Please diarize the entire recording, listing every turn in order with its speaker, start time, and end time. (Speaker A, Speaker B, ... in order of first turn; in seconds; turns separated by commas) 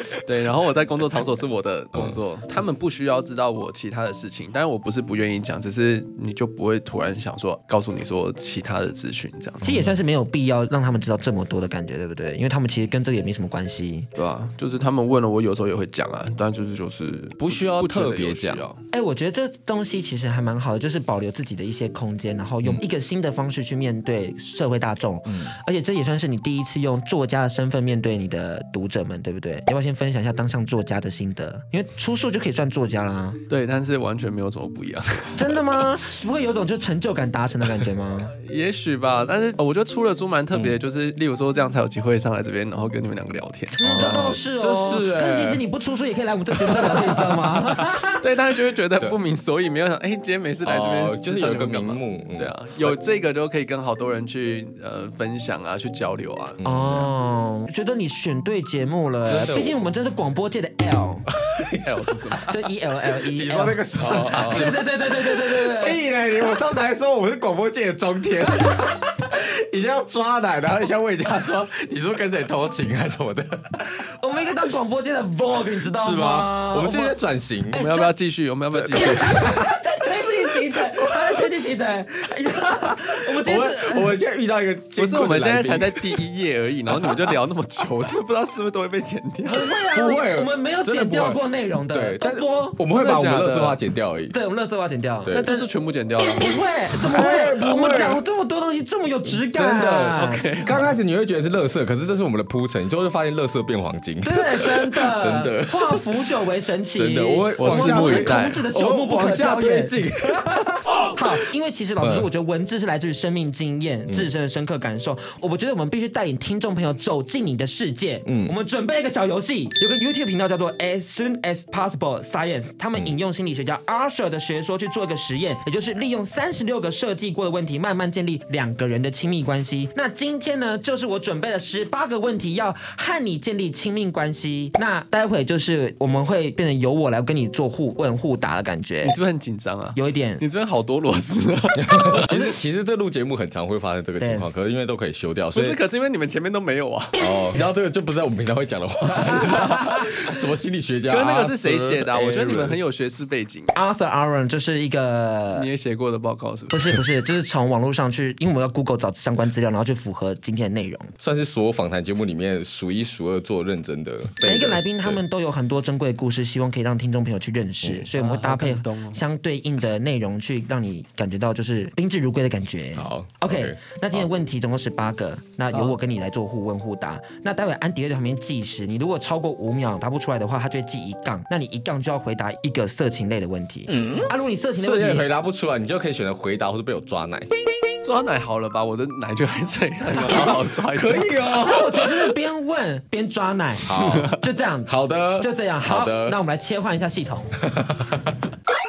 Speaker A: 0.1-9.9, Speaker B: 9.6-14.1, Speaker A: 14.2-18.8, Speaker C: 17.4-18.6, Speaker B: 18.9-33.4, Speaker C: 25.2-25.6, Speaker A: 33.5-35.7, Speaker B: 35.4-38.3, Speaker A: 38.3-44.4, Speaker B: 43.8-48.2, Speaker C: 43.8-45.6, Speaker C: 46.5-47.7, Speaker A: 48.2-56.6, Speaker C: 50.6-53.0, Speaker C: 56.6-57.1, Speaker B: 56.6-61.3, Speaker C: 59.2-59.8, Speaker C: 61.3-62.6, Speaker A: 61.8-62.5, Speaker B: 62.5-66.0, Speaker C: 63.1-73.9, Speaker A: 64.0-64.7, Speaker B: 74.2-77.2, Speaker C: 75.9-77.8, Speaker B: 77.7-78.1, Speaker A: 77.7-79.4, Speaker C: 78.7-79.6, Speaker B: 79.0-84.2, Speaker C: 81.0-81.4, Speaker C: 83.3-86.1, Speaker A: 85.0-89.7, Speaker B: 89.5-92.8, Speaker C: 89.9-94.4, Speaker A: 92.9-93.8, Speaker B: 94.3-95.7, Speaker A: 95.3-98.2, Speaker B: 96.3-100.4, Speaker C: 97.0-98.2, Speaker C: 99.5-106.3, Speaker A: 99.9-100.9, Speaker B: 104.2-139.2, Speaker C: 107.0-110.5, Speaker A: 107.6-108.7, Speaker C: 112.0-112.3, Speaker C: 118.3-118.5, Speaker A: 139.0-142.3, Speaker B: 139.9-140.4, Speaker C: 141.8-145.8, Speaker B: 144.2-144.5, Speaker A: 145.5-147.2, Speaker C: 147.2-152.8, Speaker B: 149.3-149.7, Speaker A: 151.1-153.8, Speaker B: 153.7-155.7, Speaker A: 155.5-157.0, Speaker B: 156.7-161.1, Speaker C: 161.2-165.2, Speaker B: 164.4-185.3, Speaker C: 167.8-168.1, Speaker A: 168.1-169.2, Speaker C: 172.9-174.3, Speaker A: 175.7-176.0, Speaker C: 184.8-187.5, Speaker A: 188.0-191.4, Speaker C: 190.2-192.3, Speaker B: 191.6-197.6, Speaker C: 193.8-196.4, Speaker C: 197.6-198.4